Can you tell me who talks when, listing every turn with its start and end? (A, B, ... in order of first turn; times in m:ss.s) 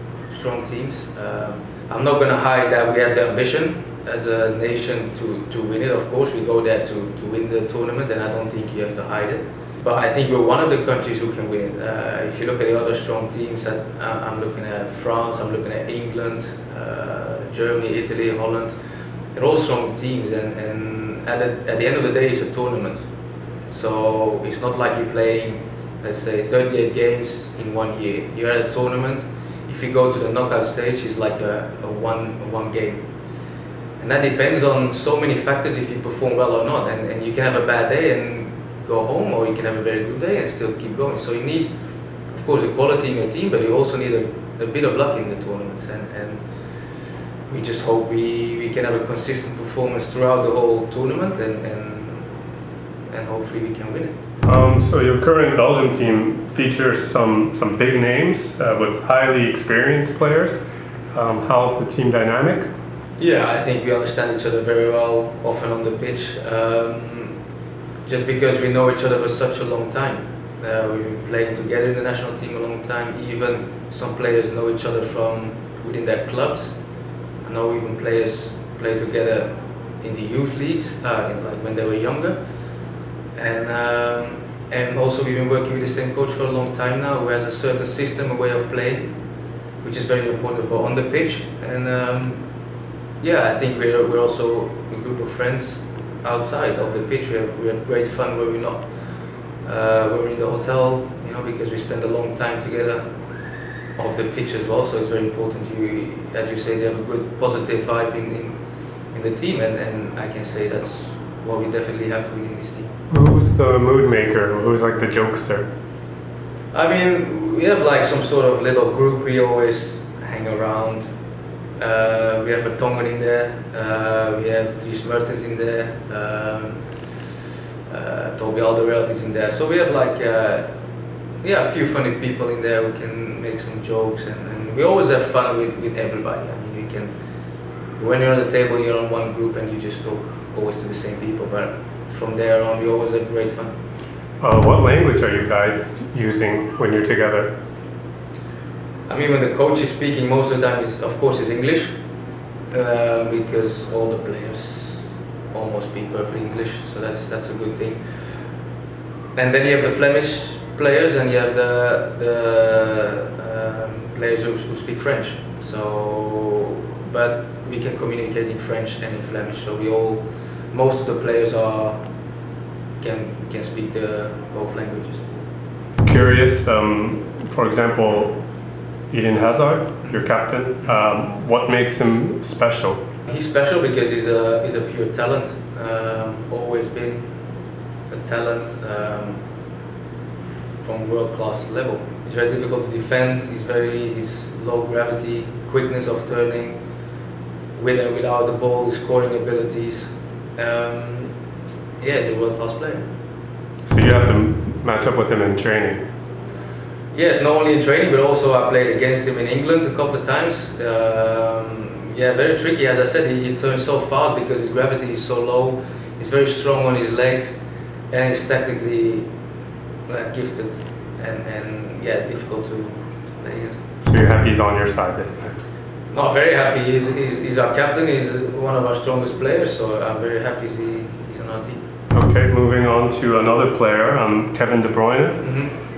0:00.3-0:18.8 A
0:19.3-0:23.1 A
0:23.7-0:33.0 A
0:34.0-0:41.7 A
0:42.3-0:46.4 A
0:47.5-0:52.3 A
0:53.1-0:54.2 A
0:54.4-1:00.6 B
1:01.1-1:02.7 B
1:03.2-1:07.3 A
1:08.0-1:16.7 A
1:17.4-1:22.4 A
1:23.3-1:29.1 A
1:29.8-1:32.4 A
1:33.2-1:38.8 A
1:39.6-1:43.0 A
1:44.0-1:48.6 A
1:49.1-1:52.9 A
1:53.1-1:55.7 B
1:56.7-2:01.0 A
2:01.8-2:06.8 A
2:07.9-2:10.7 A
2:11.4-2:17.1 A
2:18.0-2:23.7 A
2:24.4-2:27.5 B
2:29.1-2:31.9 A
2:32.7-2:38.0 A
2:39.4-2:52.0 A
2:53.0-2:55.3 A
2:56.0-2:58.4 B
2:59.1-3:03.0 B
3:03.2-3:07.3 A
3:08.1-3:09.4 A
3:10.4-3:16.8 A
3:17.8-3:21.3 A
3:22.0-3:23.0 A
3:23.8-3:26.0 B
3:27.1-3:37.6 A
3:38.1-3:39.2 A
3:40.1-3:43.8 A
3:44.0-3:45.6 B
3:46.1-3:51.8 A
3:52.1-3:55.4 B
3:55.4-3:55.7 A